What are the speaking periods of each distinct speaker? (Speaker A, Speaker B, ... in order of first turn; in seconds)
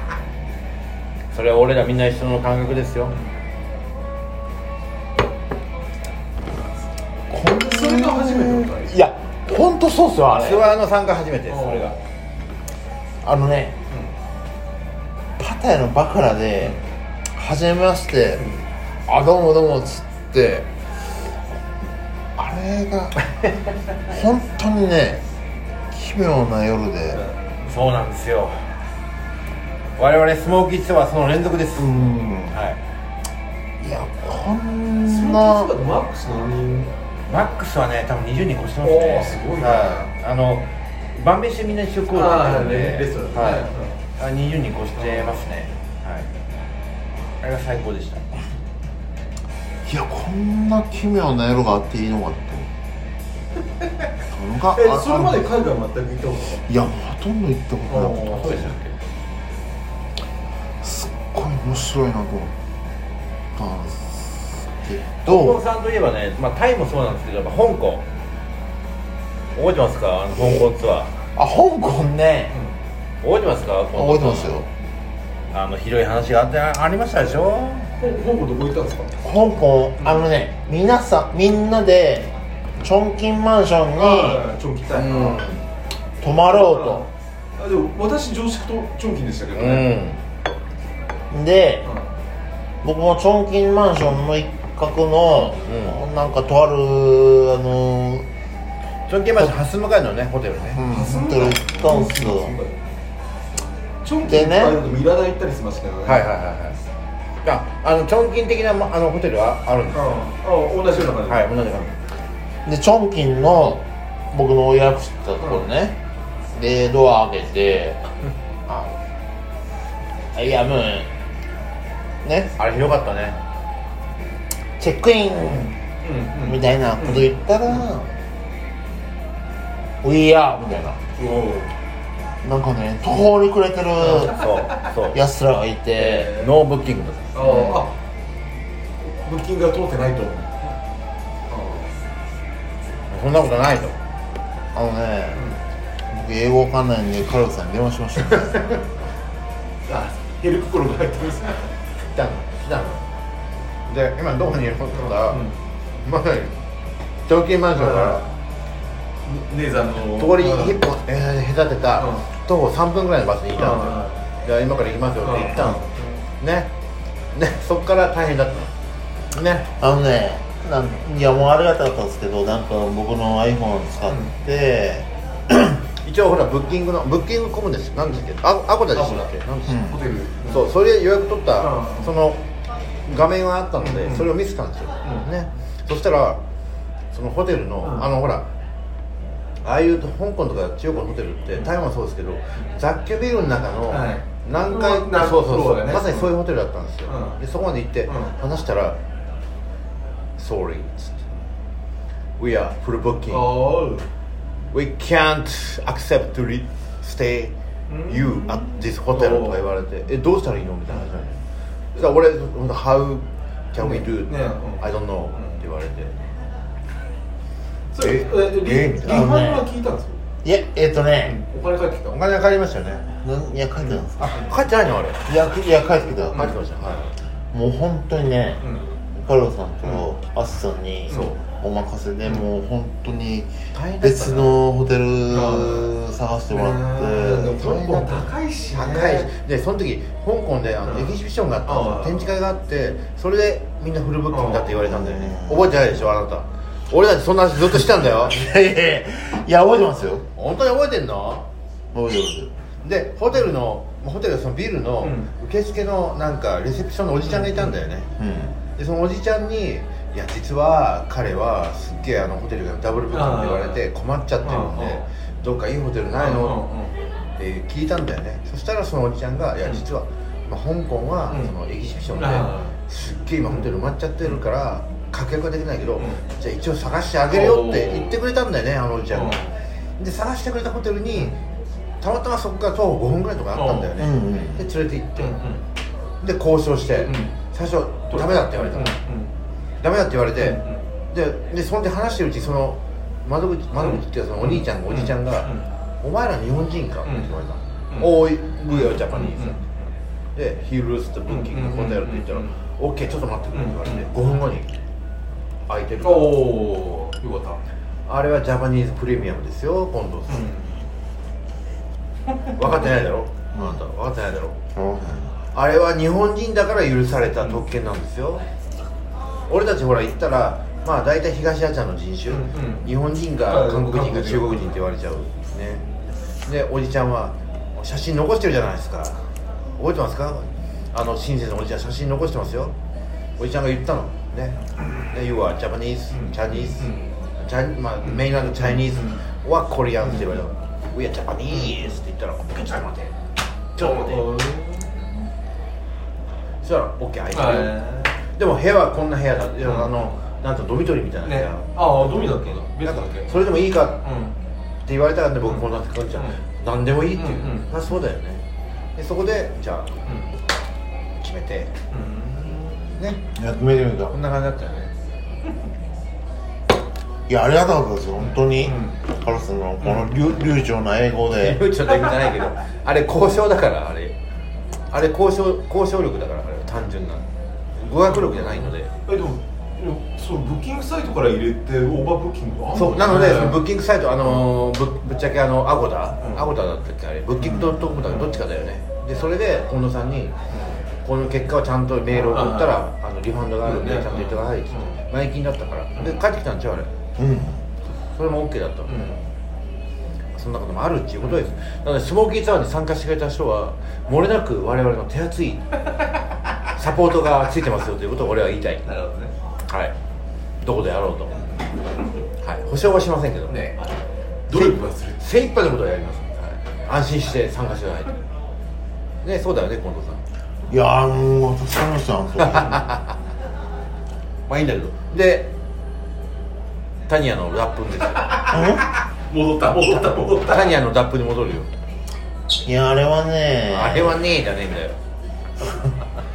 Speaker A: 1.3-3.2, 10.4-12.0, 27.7-28.6, 30.0-31.9, 32.5-32.8, 37.3-43.7, 44.2-46.3, 47.4-48.2, 58.4-59.0, 65.2-68.1, 69.5-71.1, 73.2-74.6, 75.5-77.9, 84.9-85.6, 89.5-90.2, 95.7-96.0, 99.1-100.8, 106.0-106.8, 107.4-110.3, 111.2-112.0, 122.6-123.4, 134.2-135.2, 136.0-137.8, 143.1-144.0, 152.1-153.0, 153.9-155.4, 156.0-156.6, 157.3-158.2, 160.2-165.8, 166.4-166.7, 167.3-168.7, 169.3-169.7, 176.0-179.9, 180.4-182.4, 183.1-186.4, 187.1-188.5, 189.6-199.0, 200.4-201.2, 202.4-203.5, 204.7-207.5, 208.1-211.4, 211.9-216.2, 218.0-219.2, 222.1-223.1, 224.2-225.3, 226.3-227.1, 233.7-234.6, 238.7-248.4, 250.4-251.5, 252.8-258.1, 258.8-266.6, 267.4-279.4, 280.0-281.4, 282.0-285.4, 286.2-289.0, 289.8-299.6, 300.4-304.7, 305.7-306.5, 308.1-310.5, 312.6-314.6, 315.5-318.4, 319.5-325.8, 326.4-329.2, 329.8-332.7, 333.4-334.6, 335.1-343.1, 343.8-344.3, 346.6-347.8, 348.4-354.1, 354.9-358.4, 359.0-359.9, 361.2-361.7, 363.0-363.2, 364.1-364.9, 371.4-374.1, 374.9-377.3, 377.8-378.9, 382.8-390.3, 391.0-396.9, 398.1-399.2, 400.4-405.7, 406.8-408.9, 409.7-409.9, 410.6-411.4, 412.4-413.6, 414.5-418.2, 419.2-420.2, 422.4-423.1, 424.5-425.5, 427.1-428.4, 430.4-431.7, 433.7-435.0
Speaker B: 7.3-10.7, 13.2-13.8, 15.4-16.8, 17.3-18.5, 19.1-20.7, 22.4-23.3, 24.1-25.2, 25.9-27.2, 31.8-32.6, 33.8-35.7, 49.9-52.7, 54.3-55.5, 56.7-58.8, 60.8-62.5, 63.6-65.6, 71.3-72.6, 73.9-74.7, 79.2-84.5, 86.2-87.1, 91.3-91.9, 92.8-98.3, 100.8-102.6, 104.2-104.8, 112.7-116.0, 116.5-118.0, 118.7-119.0, 120.3-121.1, 122.2-122.5, 124.8-125.7, 126.4-128.1, 130.0-131.0, 132.4-134.4, 135.1-136.3, 144.7-145.5, 146.1-148.8, 169.8-175.8, 179.7-180.0, 219.1-219.7, 220.4-221.4, 223.2-224.4, 225.2-226.6, 227.5-228.6, 229.2-238.3, 244.8-246.0, 247.7-250.3, 251.9-252.6, 258.2-258.6, 284.0-284.7, 313.5-313.8, 314.8-315.3, 363.4-364.2, 367.3-371.6, 387.4-388.0, 397.2-397.6, 420.7-422.9, 428.5-428.9, 432.6-434.2
Speaker C: 7.3-9.0, 11.5-12.0, 18.4-18.6, 35.1-36.9, 38.8-40.1, 42.1-43.9, 45.0-45.4, 54.7-56.7, 57.9-58.6, 78.0-79.2, 80.0-80.3, 84.0-85.6, 86.4-89.9, 100.9-102.8, 104.0-106.3, 109.9-111.5, 125.5-127.8, 131.2-131.7, 134.0-134.8, 136.0-136.5, 137.3-138.0, 139.0-140.7, 141.5-141.9, 149.9-151.7, 155.0-155.6, 157.8-158.3, 159.2-160.8, 162.0-162.2, 163.6-164.2, 165.2-166.2, 178.9-179.4, 179.9-180.7, 181.6-182.1, 183.8-184.3, 193.9-196.3, 197.1-197.4, 198.1-198.3, 203.3-204.1, 207.9-209.6, 213.8-215.6, 217.9-220.2, 221.2-222.2, 223.8-224.5, 231.1-231.4, 235.3-235.9, 236.5-239.3, 240.8-241.2, 241.7-242.3, 244.3-244.8, 255.0-255.3, 257.3-257.7, 263.1-263.8, 264.4-265.0, 266.2-266.9, 272.1-272.8, 277.3-278.2, 279.1-279.5, 283.5-283.9, 285.2-285.6, 287.0-287.3, 288.1-289.3, 290.4-290.8, 293.8-295.7, 297.1-297.3, 298.7-299.7, 301.3-302.6, 303.5-304.1, 306.0-307.6, 310.3-310.8, 322.3-322.9, 323.4-324.7, 336.1-337.1, 338.0-339.2, 341.5-341.9, 343.8-345.1, 347.3-348.1, 349.6-349.9, 351.2-353.4, 354.0-354.3, 355.4-356.4, 357.2-357.7, 361.9-362.9, 368.2-369.0, 369.8-370.2, 378.1-383.6, 386.2-386.5, 388.0-388.4, 390.5-390.8, 392.1-392.8, 393.6-395.0, 398.9-399.2, 408.9-409.3, 413.5-415.2, 428.3-428.8, 429.3-430.8